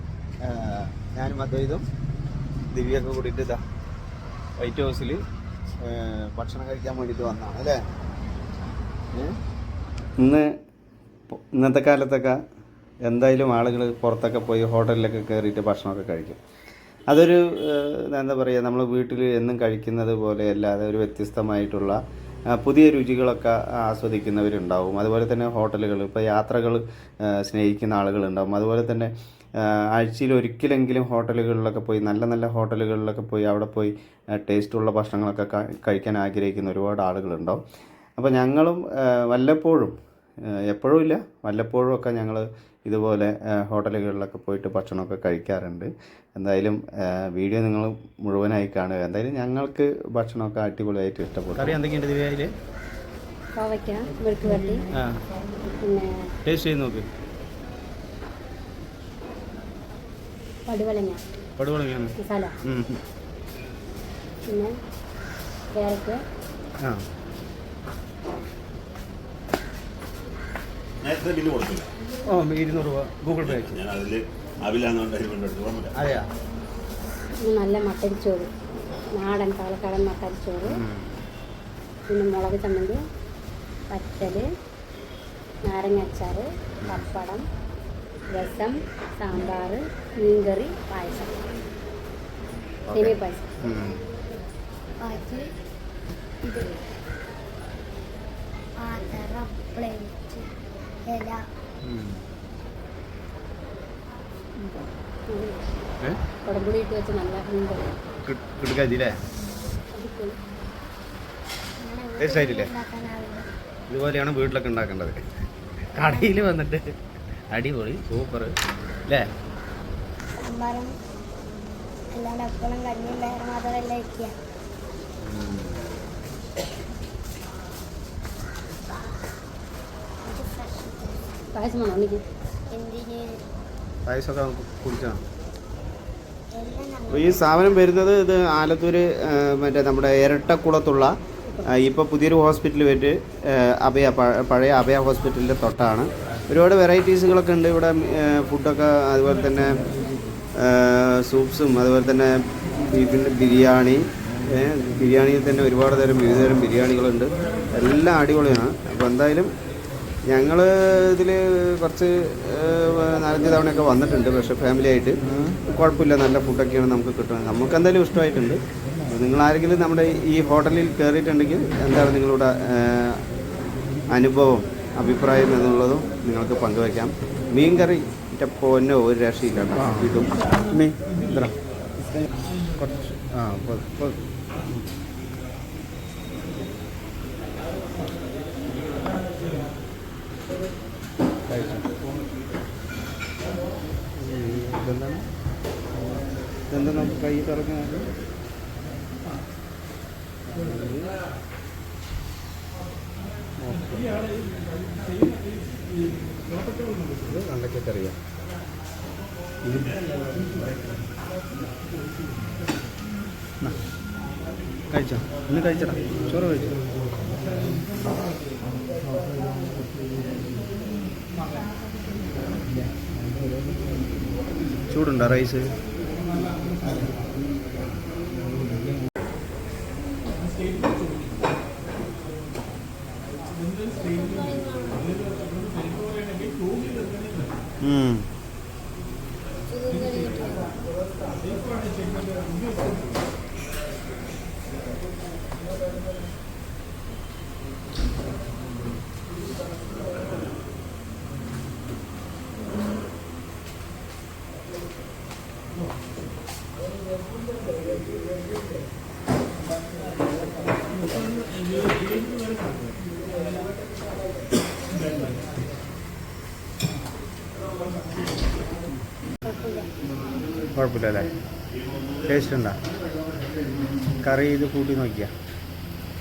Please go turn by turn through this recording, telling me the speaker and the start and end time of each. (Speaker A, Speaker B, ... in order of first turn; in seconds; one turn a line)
Speaker A: 0.5-1.8
Speaker A: 2.7-3.6
Speaker A: 4.6-5.2
Speaker A: 5.8-7.8
Speaker A: 10.2-10.5
Speaker A: 11.3-12.4
Speaker A: 13.1-16.4
Speaker A: 17.1-22.0
Speaker A: 22.6-29.1
Speaker A: 29.9-37.6
Speaker A: 38.2-40.0
Speaker A: 40.7-46.8
Speaker A: 47.3-52.5
Speaker B: 53.6-54.8
Speaker A: 54.9-55.2
Speaker B: 55.8-56.1
Speaker A: 56.5-57.0
Speaker B: 60.7-61.2
Speaker A: 61.6-63.0
Speaker B: 62.2-62.5
Speaker B: 65.7-66.2
Speaker C: 71.0-71.9
Speaker A: 72.3-73.8
Speaker C: 73.4-75.9
Speaker A: 75.9-76.2
Speaker B: 77.4-78.5
Speaker B: 79.2-80.8
Speaker A: 80.7-81.1
Speaker B: 82.1-83.0
Speaker B: 83.9-84.4
Speaker B: 85.7-87.4
Speaker A: 86.8-87.1
Speaker B: 88.3-91.4
Speaker A: 92.9-94.0
Speaker B: 92.9-93.4
Speaker D: 95.0-95.4
Speaker D: 96.4-96.8
Speaker D: 98.8-100.5
Speaker D: 101.1-101.4
Speaker A: 101.8-102.2
Speaker B: 104.6-105.6
Speaker B: 106.4-107.8
Speaker A: 108.2-109.2
Speaker B: 109.9-110.3
Speaker D: 111.8-113.5
Speaker A: 112.2-112.7
Speaker A: 113.9-115.2
Speaker A: 115.9-116.9
Speaker D: 116.0-116.4
Speaker A: 117.5-118.5
Speaker D: 120.4-120.9
Speaker D: 122.1-124.3
Speaker A: 125.2-125.8
Speaker D: 128.9-129.2
Speaker D: 130.2-131.4
Speaker B: 131.5-132.2
Speaker D: 132.7-133.4
Speaker A: 134.1-135.2
Speaker D: 136.5-137.8
Speaker A: 137.1-141.2
Speaker A: 141.7-149.8
Speaker A: 150.6-159.5
Speaker A: 160.3-173.2
Speaker A: 174.1-181.6
Speaker A: 182.8-184.8
Speaker A: 191.5-191.9
Speaker A: 194.2-195.2
Speaker A: 196.7-198.1
Speaker A: 200.6-201.1
Speaker A: 203.6-204.1
Speaker A: 207.2-208.2
Speaker A: 214.9-216.8
Speaker A: 224.9-225.7
Speaker D: 233.7-235.6
Speaker A: 237.8-238.2
Speaker D: 239.7-240.8
Speaker B: 269.4-269.9
Speaker A: 270.8-271.3
Speaker A: 272.3-272.8
Speaker A: 274.2-275.3